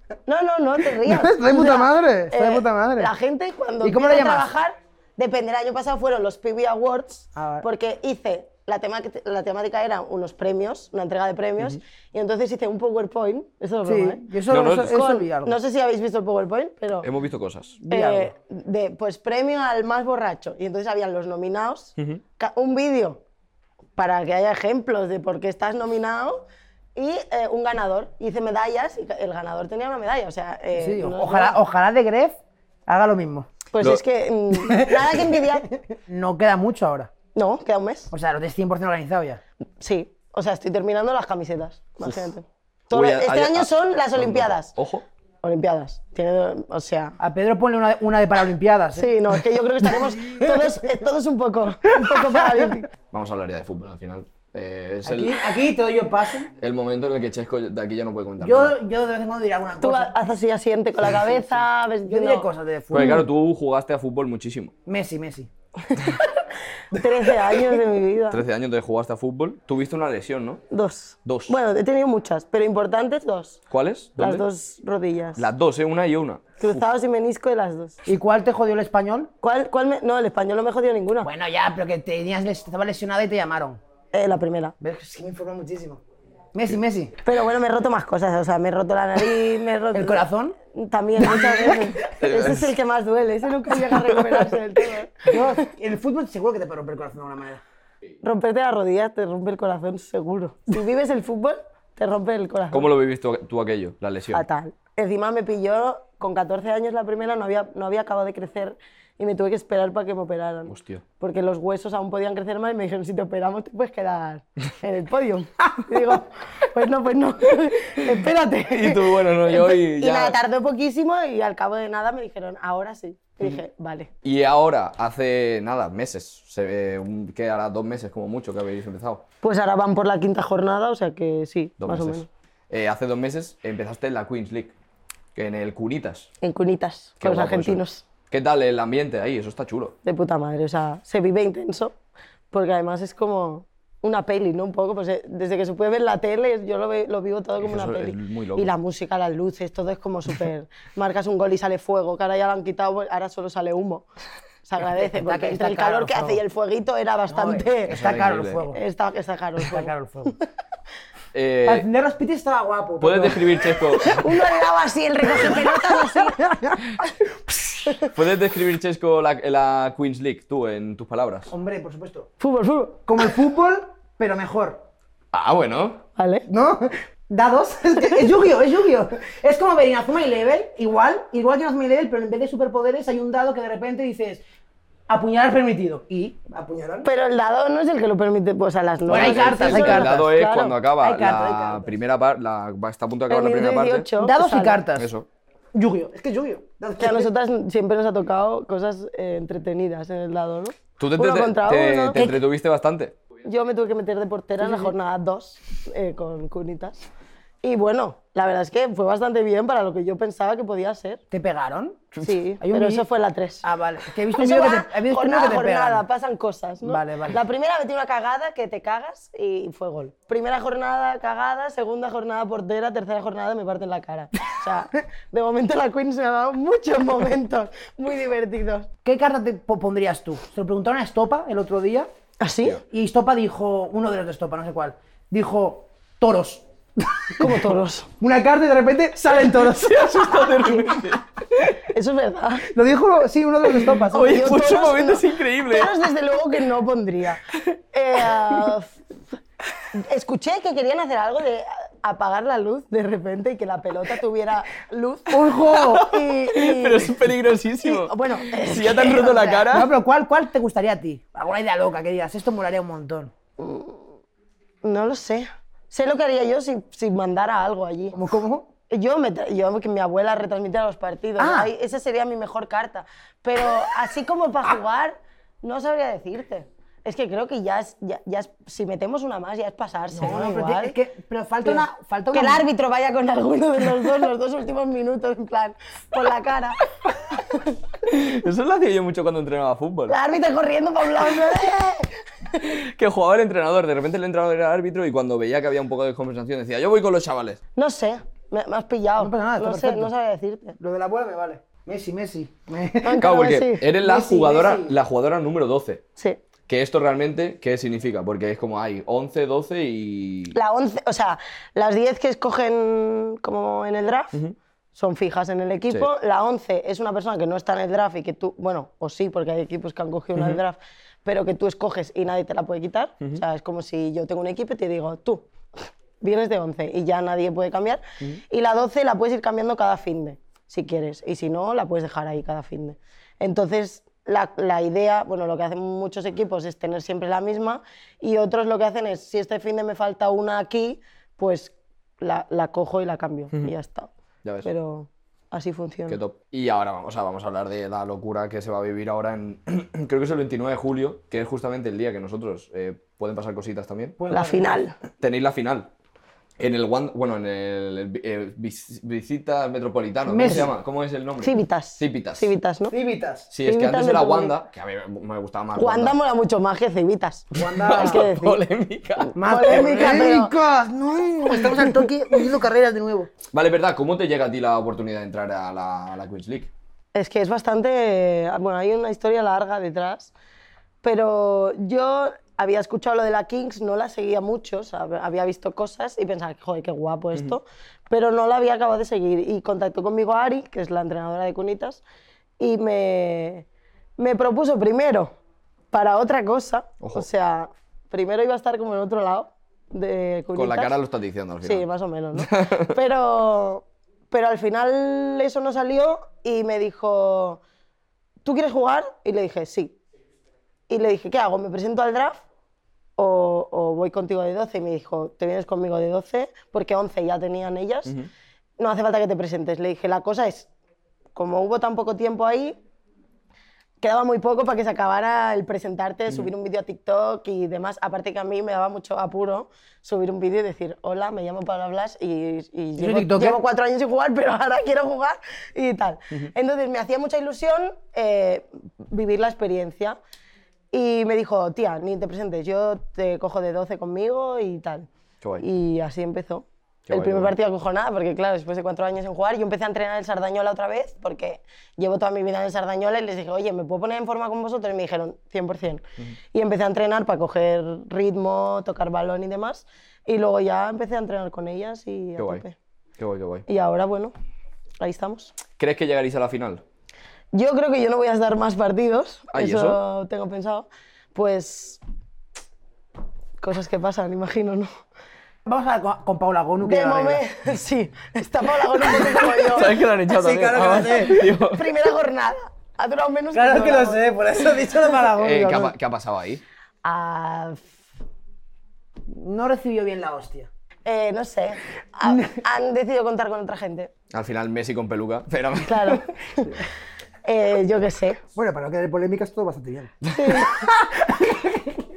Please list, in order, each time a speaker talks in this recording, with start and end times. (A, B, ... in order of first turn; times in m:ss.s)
0:00.2-0:14.2 A
0:01.0-0:03.1 B
0:03.8-0:04.5 B
0:07.3-0:07.6 B
0:13.8-0:15.6 B
0:14.5-0:15.0 C
0:14.8-0:17.1 A
0:17.0-0:17.8 C
0:17.8-0:18.3 B
0:17.9-0:23.2 A
0:24.0-0:26.4 A
0:27.0-0:31.6 A
0:30.8-0:33.5 B
0:33.7-0:35.7 A
0:34.6-0:35.1 B
0:36.1-0:37.1 B
0:37.3-0:38.1 A
0:38.1-0:39.4 B
0:39.8-0:44.7 A
0:42.9-0:45.0 C
0:45.4-0:47.2 A
0:47.2-0:49.4 B
0:49.0-0:52.9 A
0:50.0-0:50.9 B
0:52.0-0:52.6 B
0:53.1-0:55.4 C
0:55.0-0:56.5 B
0:56.6-0:58.8 C
0:58.4-1:00.1 B
0:59.8-1:02.5 A
1:01.1-1:03.2 B
1:02.9-1:04.7 C
1:04.8-1:05.5 B
1:05.9-1:08.4 A
1:07.2-1:07.8 B
1:08.3-1:10.6 C
1:10.7-1:13.6 A
1:11.2-1:11.6 C
1:13.7-1:14.4 C
1:14.2-1:15.5 A
1:15.4-1:16.8 C
1:16.6-1:18.0 A
1:18.0-1:19.3 B
1:19.4-1:21.3 A
1:21.2-1:23.8 B
1:24.1-1:24.8 A
1:24.8-1:26.0 B
1:26.5-1:27.1 B
1:27.2-1:35.6 A
1:29.9-1:30.5 B
1:31.2-1:32.1 B
1:32.2-1:32.7 C
1:34.0-1:34.4 C
1:35.3-1:37.6 B
1:38.2-1:42.9 A
1:42.7-1:44.4 C
1:44.3-2:04.1 A
1:50.7-1:51.0 C
1:58.6-2:00.4 C
2:04.2-2:09.2 C
2:09.4-2:12.3 A
2:11.8-2:14.7 C
2:15.3-2:16.3 C
2:16.4-2:18.0 A
2:17.2-2:20.0 C
2:20.0-2:22.0 A
2:22.5-2:34.0 A
2:27.6-2:28.7 C
2:34.6-2:38.0 A
2:35.1-2:36.4 B
2:37.3-2:38.8 B
2:37.9-2:38.6 C
2:38.7-2:39.9 A
2:39.6-2:40.3 B
2:41.3-2:41.9 C
2:41.6-2:43.9 B
2:43.0-2:44.2 C
2:44.0-2:47.1 A
2:45.4-2:46.8 B
2:48.0-2:51.5 C
2:51.5-2:52.3 B
2:52.4-2:53.0 A
2:53.1-2:54.8 B
2:55.3-2:56.0 C
2:56.2-2:56.4 A
2:56.5-3:04.4 B
3:05.1-3:07.1 B
3:07.0-3:10.8 A
3:09.1-3:10.3 B
3:09.1-3:14.1 C
3:11.0-3:12.0 B
3:13.3-3:14.8 A
3:14.2-3:15.1 B
3:15.0-3:15.3 C
3:15.7-3:17.3 B
3:17.0-3:22.2 A
3:21.0-3:23.2 C
3:22.1-3:22.4 B
3:23.4-3:27.0 A
3:24.6-3:24.9 B
3:27.6-3:31.2 A
3:31.3-3:33.0 B
3:32.2-3:33.7 A
3:33.6-3:36.0 B
3:34.3-3:48.9 A
3:36.8-3:37.4 B
3:49.0-3:52.1 B
3:52.4-3:52.8 A
3:52.9-4:00.9 B
3:57.4-3:58.1 A
3:59.6-4:01.7 C
4:01.6-4:02.7 A
4:02.7-4:04.5 B
4:03.8-4:06.0 C
4:04.1-4:09.0 A
4:09.9-4:17.2 A
4:15.3-4:16.0 B
4:15.7-4:19.9 C
4:17.8-4:19.6 A
4:19.2-4:23.3 B
4:23.6-4:24.1 A
4:24.8-4:28.2 A
4:28.1-4:28.7 B
4:28.9-4:41.0 A
4:31.4-4:31.7 B
4:40.1-4:42.6 B
4:41.6-4:46.8 A
4:48.0-4:50.1 C
4:50.1-4:52.6 A
4:52.6-4:57.6 C
4:57.8-5:00.8 A
4:59.2-5:00.1 B
5:00.8-5:03.2 B
5:03.0-5:03.9 A
5:03.2-5:06.0 C
5:04.0-5:04.9 B
5:06.7-5:10.5 C
5:10.5-5:14.4 A
5:14.9-5:25.5 A
5:20.3-5:20.6 C
5:26.2-5:44.1 A
5:44.4-5:44.7 C
5:44.6-5:46.2 A
5:46.1-5:54.2 C
5:54.2-5:54.8 B
5:54.3-5:54.9 A
5:55.2-5:55.9 C
5:56.6-6:02.5 C
6:00.2-6:00.7 B
6:01.4-6:02.9 A
6:02.9-6:03.5 B
6:03.5-6:06.2 C
6:03.6-6:04.5 A
6:05.8-6:08.6 A
6:07.5-6:08.4 B
6:07.8-6:09.9 C
6:09.2-6:10.5 A
6:09.4-6:13.3 B
6:11.5-6:11.9 A
6:13.5-6:16.7 C
6:17.1-6:20.3 A
6:21.0-6:32.0 A
6:32.6-6:33.6 A
6:34.2-6:35.4 A
6:35.9-6:40.9 A
6:37.0-6:37.2 C
6:40.6-6:41.8 C
6:41.6-6:47.6 A
6:42.4-6:42.9 C
6:48.4-6:50.0 A
6:50.9-6:52.4 A
6:53.2-6:58.2 A
6:58.8-7:00.7 A
7:01.3-7:02.8 A
7:04.0-7:20.2 A
7:13.0-7:13.6 B
7:20.9-7:25.1 A
7:25.6-7:42.7 A
7:27.0-7:27.5 C
7:42.4-7:42.6 C
7:43.2-7:43.6 C
7:43.7-7:44.3 A
7:45.0-7:45.6 A
7:45.8-7:46.8 C
7:47.5-7:52.0 A
7:49.5-7:50.0 C
7:53.6-7:54.9 A
7:55.6-7:57.4 B
7:56.8-8:00.0 A
7:59.1-8:01.4 B
7:59.7-8:01.9 C
8:00.7-8:04.4 A
8:03.5-8:05.9 B
8:05.4-8:06.6 C
8:07.0-8:07.8 A
8:09.3-8:10.7 B
8:11.0-8:14.1 A
8:12.2-8:12.5 B
8:14.3-8:16.2 C
8:15.8-8:16.8 A
8:17.4-8:18.4 A
8:18.5-8:21.9 B
8:20.3-8:20.9 A